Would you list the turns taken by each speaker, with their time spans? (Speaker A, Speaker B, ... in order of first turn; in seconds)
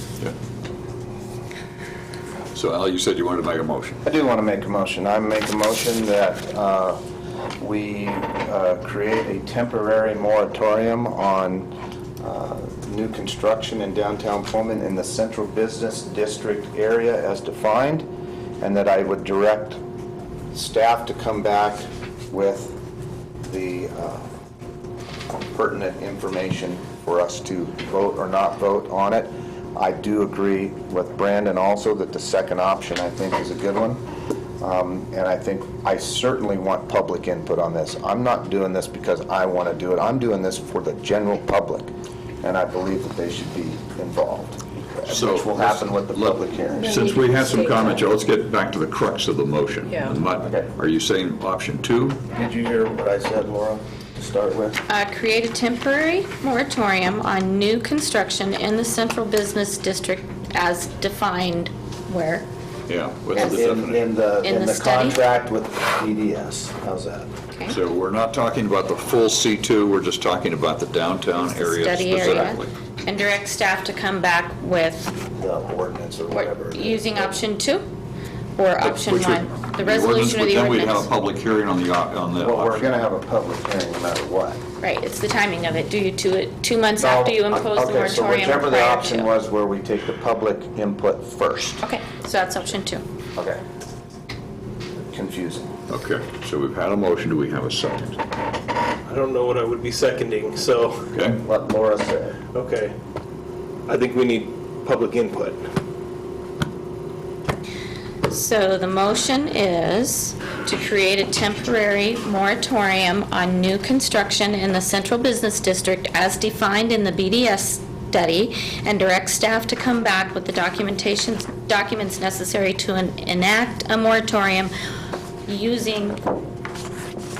Speaker A: 2.5-4.0, 45.1-52.2, 62.9-64.0, 67.7-72.7, 78.8-82.9, 95.9-98.2, 101.1-101.4
Speaker B: 4.0-7.0, 7.6-18.1, 18.6-19.8, 20.5-22.8, 23.4-24.2, 25.5-34.0, 34.6-41.9, 42.4-47.1, 50.4-50.7, 52.3-54.8, 63.3-67.3, 75.3-77.4, 82.4-84.6, 87.0-91.8, 95.0-95.7, 101.4-102.4
Speaker C: 54.9-62.5, 64.4-65.2, 67.5-67.8, 71.6-75.1, 76.3-77.8, 78.5-81.1, 84.8-89.3, 91.8-93.0, 108.3-124.7, 125.5-126.2
Speaker D: 99.0-101.1, 102.5-102.9, 103.9-105.6